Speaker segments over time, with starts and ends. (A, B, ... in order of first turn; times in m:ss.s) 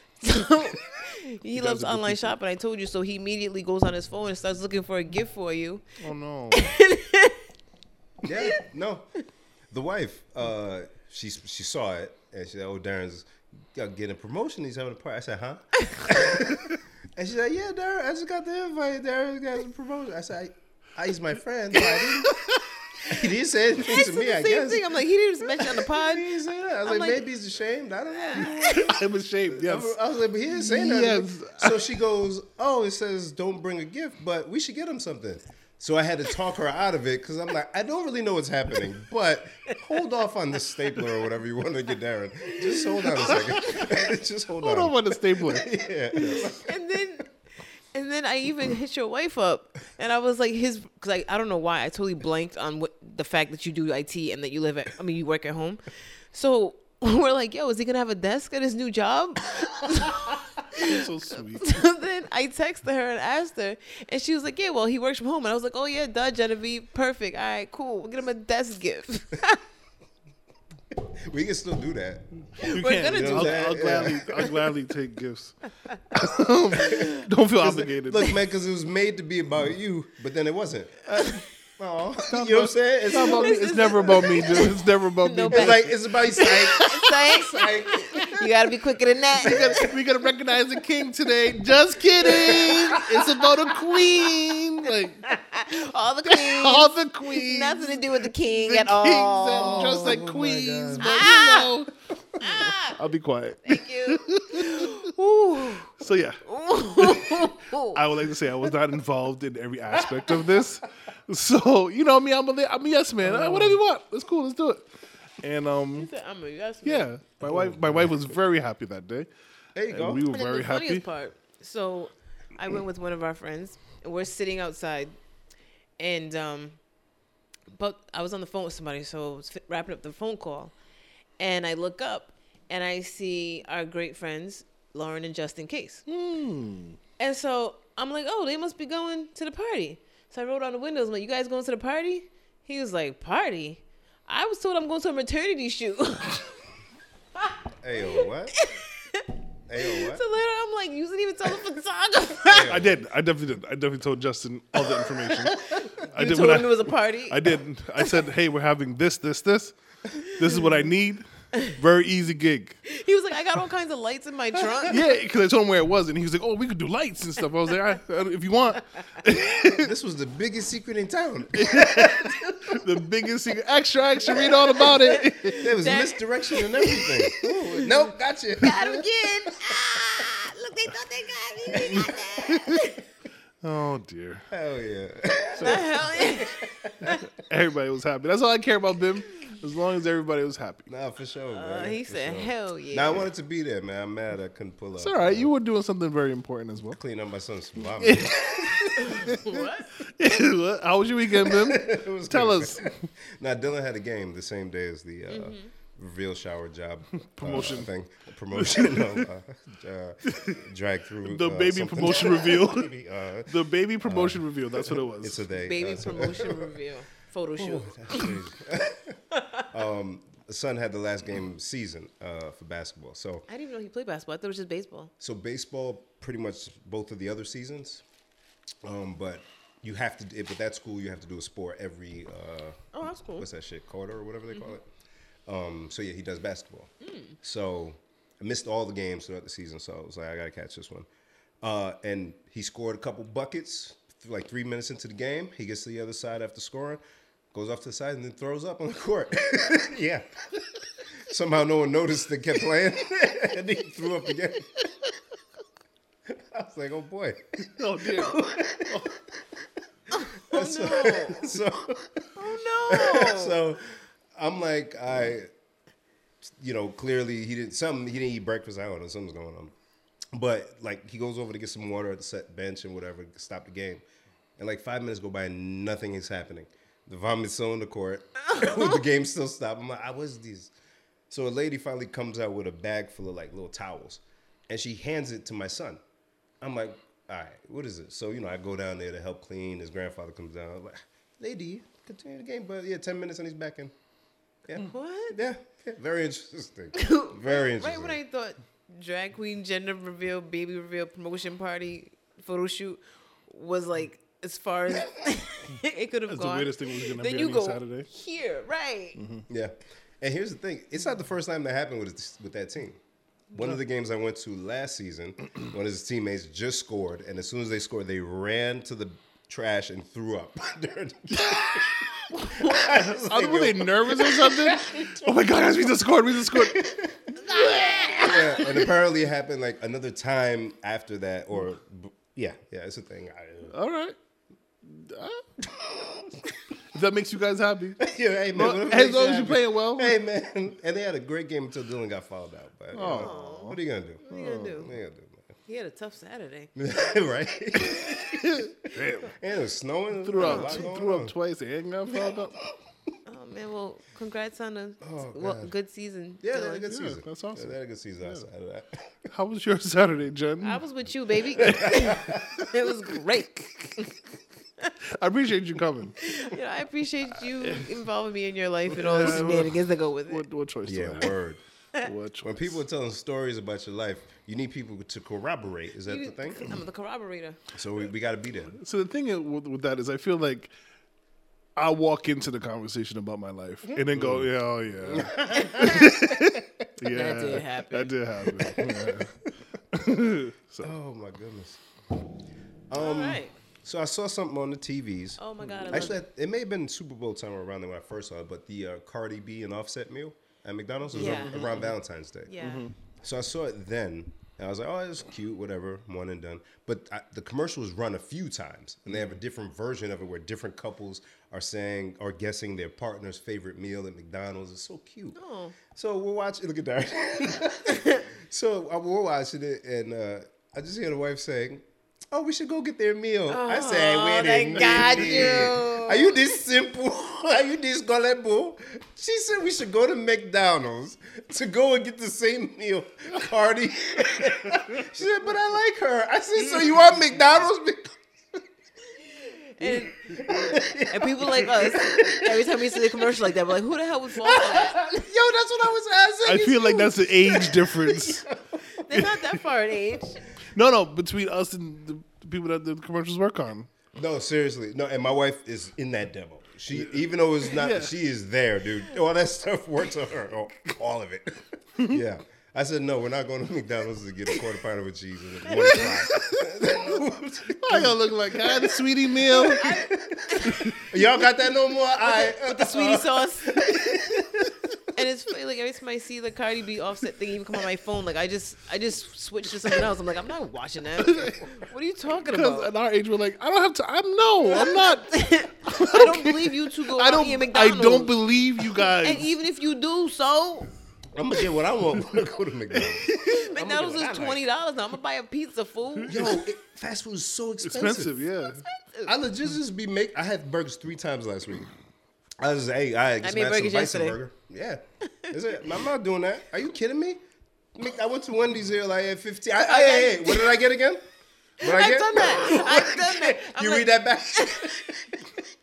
0:00.2-0:05.8 A
0:01.5-0:02.4 B
0:06.0-0:06.7 B
0:06.5-0:07.4 A
0:08.2-0:09.0 C
0:08.3-0:08.6 A
0:09.7-0:22.4 C
0:21.9-0:22.8 B
0:23.0-0:24.9 C
0:23.8-0:26.3 A
0:25.6-0:28.9 C
0:26.8-0:27.2 A
0:28.1-0:28.9 A
0:28.4-0:30.0 B
0:29.5-0:46.7 C
0:30.5-0:31.8 B
0:42.5-0:43.9 A
0:43.2-0:43.9 B
0:44.6-0:45.7 B
0:46.1-0:47.3 A
0:47.9-1:09.6 A
1:00.7-1:01.8 B
1:10.9-1:14.6 C
1:12.6-1:13.7 A
1:12.7-1:15.5 B
1:16.1-1:18.4 B
1:16.8-1:23.5 C
1:22.2-1:27.2 B
1:23.1-1:29.9 A
1:25.5-1:28.3 C
1:28.1-1:28.4 B
1:29.4-1:35.4 B
1:29.4-1:29.9 C
1:32.2-1:33.2 A
1:32.2-1:33.0 C
1:33.7-1:40.2 A
1:36.2-1:45.1 B
1:39.5-1:41.3 C
1:41.0-1:41.7 A
1:42.4-1:43.0 A
1:43.6-1:45.9 A
1:45.9-1:46.4 B
1:46.4-1:48.0 A
1:47.0-1:54.9 B
1:53.3-1:53.7 C
1:55.4-1:56.1 B
1:56.0-1:57.1 A
1:56.8-1:59.3 B
1:57.4-1:58.1 C
1:59.7-2:00.3 C
1:59.9-2:01.0 B
2:00.2-2:05.1 A
2:06.0-2:06.8 A
2:07.7-2:10.7 A
2:11.4-2:16.0 A
2:16.1-2:17.0 B
2:17.2-2:26.5 A
2:27.4-2:32.7 A
2:27.8-2:28.5 C
2:29.7-2:30.2 C
2:32.4-2:33.0 C
2:32.6-2:42.8 B
2:34.9-2:38.2 A
2:42.8-2:45.0 A
2:44.9-2:49.9 B
2:49.6-2:52.8 C
2:51.5-2:55.7 B
2:54.5-2:58.1 A
2:55.6-2:59.0 C
2:58.6-3:03.0 A
3:01.7-3:02.2 C
3:01.7-3:02.9 B
3:03.6-3:04.5 B
3:04.5-3:07.2 C
3:05.6-3:05.8 B
3:05.6-3:07.2 A
3:07.1-3:10.9 B
3:10.9-3:15.5 C
3:11.5-3:13.3 A
3:15.0-3:17.0 B
3:16.9-3:19.6 C
3:18.0-3:23.1 B
3:19.0-3:19.9 A
3:21.4-3:36.7 C
3:25.3-3:25.7 A
3:27.2-3:27.9 B
3:28.5-3:29.3 B
3:30.2-3:30.6 B
3:31.2-3:32.9 B
3:33.5-3:35.4 B
3:35.6-3:38.4 A
3:37.5-3:39.2 C
3:39.3-3:39.6 A
3:39.7-3:43.4 C
3:43.5-3:45.1 A
3:45.2-3:48.0 C
3:48.8-3:54.8 C
3:52.9-3:53.4 A
3:55.5-3:56.9 C
3:57.0-3:57.3 A
3:57.4-4:01.1 C
4:01.6-4:07.0 C
4:07.5-4:10.2 C
4:11.3-4:14.7 C
4:16.3-4:19.1 C
4:17.6-4:19.1 B
4:20.1-4:21.5 A
4:20.1-4:22.3 C
4:22.4-4:23.6 A
4:22.9-4:23.8 C
4:24.4-4:25.5 C
4:26.4-4:29.7 C
4:30.3-4:34.0 C
4:34.6-4:40.7 C
4:41.3-4:46.0 C
4:46.6-4:53.9 C
4:54.7-4:58.2 C
4:54.7-4:55.4 A
4:56.9-5:09.2 A
5:06.3-5:08.1 B
5:09.2-5:09.4 B
5:09.5-5:13.0 C
5:13.5-5:25.6 C
5:21.4-5:21.8 B
5:22.4-5:22.7 A
5:22.6-5:28.9 B
5:26.4-5:27.3 C
5:27.5-5:28.6 A
5:28.2-5:33.7 C
5:33.7-5:34.2 B
5:34.8-5:35.4 B
5:35.8-5:36.1 C
5:36.9-5:38.0 B
5:38.0-5:45.5 C
5:38.5-5:40.2 B
5:42.9-5:43.8 B
5:43.0-5:44.9 A
5:44.3-5:44.8 B
5:45.7-5:46.7 A
5:46.8-5:51.3 C
5:48.4-5:49.3 B
5:50.2-5:52.6 B
5:50.4-5:50.9 A
5:53.3-5:56.9 A
5:55.0-5:55.7 C
5:56.4-5:59.2 C
5:56.8-5:58.4 B
5:59.3-6:00.8 B
6:00.6-6:04.2 A
6:01.5-6:02.7 C
6:05.0-6:06.2 B
6:06.2-6:10.4 A
6:07.6-6:07.9 B
6:08.9-6:11.3 B
6:10.8-6:11.6 C
6:12.0-6:12.8 B
6:12.4-6:16.8 C
6:16.0-6:17.6 A
6:17.7-6:18.8 C
6:18.8-6:20.7 B
6:21.8-6:30.9 B
6:24.1-6:24.5 C
6:25.0-6:26.5 C
6:25.6-6:26.1 A
6:27.1-6:28.1 A
6:28.6-6:29.3 C
6:30.8-6:31.8 C
6:32.9-6:42.5 C
6:33.0-6:33.5 A
6:35.4-6:36.2 A
6:35.6-6:36.1 B
6:41.1-6:41.8 A
6:41.1-6:41.9 B
6:42.5-6:42.9 A
6:42.6-6:42.9 B
6:43.2-6:55.4 C
6:55.4-6:55.8 A
6:55.9-7:18.6 C
6:57.9-6:58.2 A
7:03.5-7:06.4 A
7:04.9-7:05.2 B
7:19.4-7:25.2 A
7:19.8-7:23.4 C
7:24.4-7:29.4 C
7:26.4-7:28.5 B
7:29.0-7:30.4 A
7:30.7-7:33.9 B
7:34.1-7:54.7 C
7:36.9-7:38.2 B
7:45.7-7:46.6 B
7:45.7-7:46.2 A
7:47.8-7:49.9 B
7:49.8-7:51.4 A
7:50.7-7:51.0 B
7:52.2-7:54.2 A
7:55.1-8:02.9 A
8:01.2-8:01.6 B
8:02.4-8:09.5 B
8:04.7-8:10.9 A
8:11.3-8:14.6 C
8:13.2-8:16.5 A
8:16.2-8:16.6 B
8:16.3-8:18.5 C
8:17.8-8:18.8 B
8:18.9-8:19.3 A
8:19.2-8:21.9 C
8:22.6-8:27.4 C
8:23.4-8:24.4 A
8:27.9-8:31.2 C
8:29.9-8:30.8 A
8:31.8-8:35.7 C
8:31.8-8:35.1 A